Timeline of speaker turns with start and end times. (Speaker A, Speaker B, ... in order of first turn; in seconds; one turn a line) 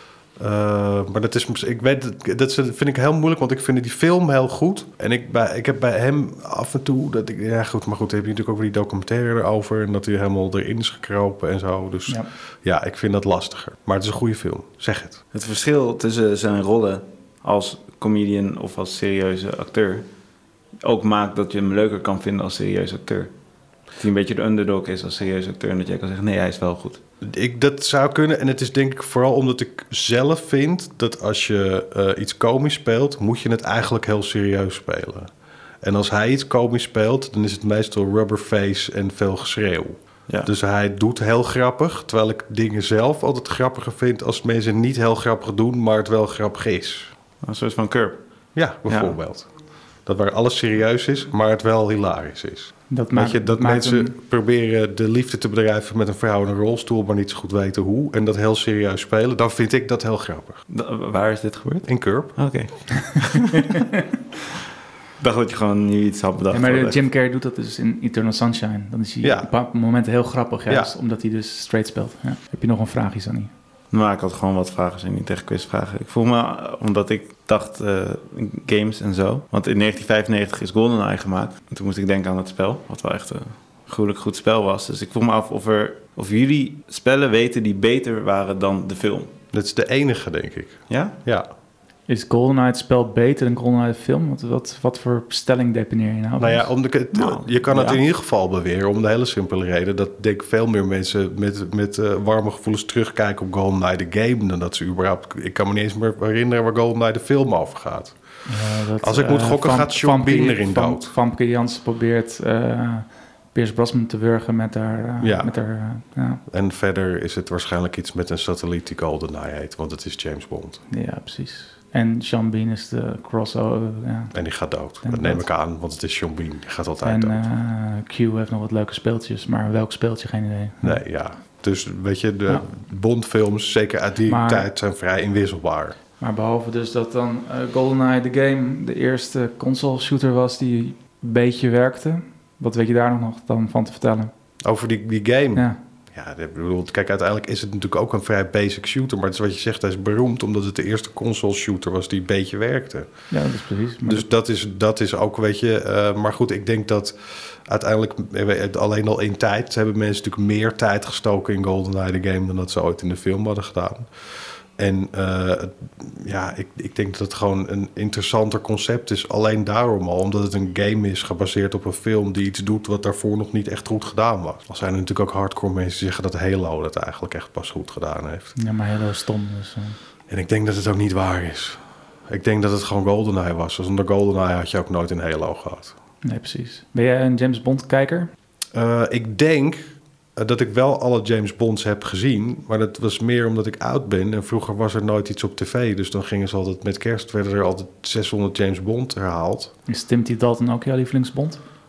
Speaker A: 0.4-15.2
Speaker B: 15.3-20.1
Speaker B: 20.8-23.3
Speaker B: 23.9-27.0
Speaker A: 27.2-35.3
Speaker A: 35.8-47.1
Speaker B: 47.4-48.2
Speaker A: 48.5-49.5
Speaker B: 48.9-49.1
Speaker A: 50.0-60.6
Speaker C: 52.9-54.1
Speaker B: 60.7-63.8
Speaker A: 61.9-62.4
Speaker C: 63.4-64.0
Speaker B: 65.2-67.0
Speaker C: 66.5-73.5
Speaker A: 69.2-69.5
Speaker B: 73.9-89.3
Speaker A: 89.5-91.5
Speaker B: 90.9-91.2
Speaker C: 92.1-96.7
Speaker A: 96.4-108.2
Speaker B: 97.1-98.0
Speaker C: 108.5-116.4
Speaker A: 109.0-111.1
Speaker A: 115.2-115.5
Speaker A: 116.5-120.8
Speaker C: 120.9-124.3
Speaker A: 124.3-127.4
Speaker C: 125.0-125.4
Speaker C: 127.0-131.0
Speaker A: 130.8-135.9
Speaker C: 134.2-134.7
Speaker C: 136.2-144.3
Speaker A: 144.6-153.1
Speaker C: 153.3-154.2
Speaker A: 154.0-164.1
Speaker A: 164.8-178.5
Speaker C: 178.6-180.0
Speaker A: 180.3-185.9
Speaker C: 186.2-188.3
Speaker A: 188.7-199.7
Speaker C: 199.9-201.6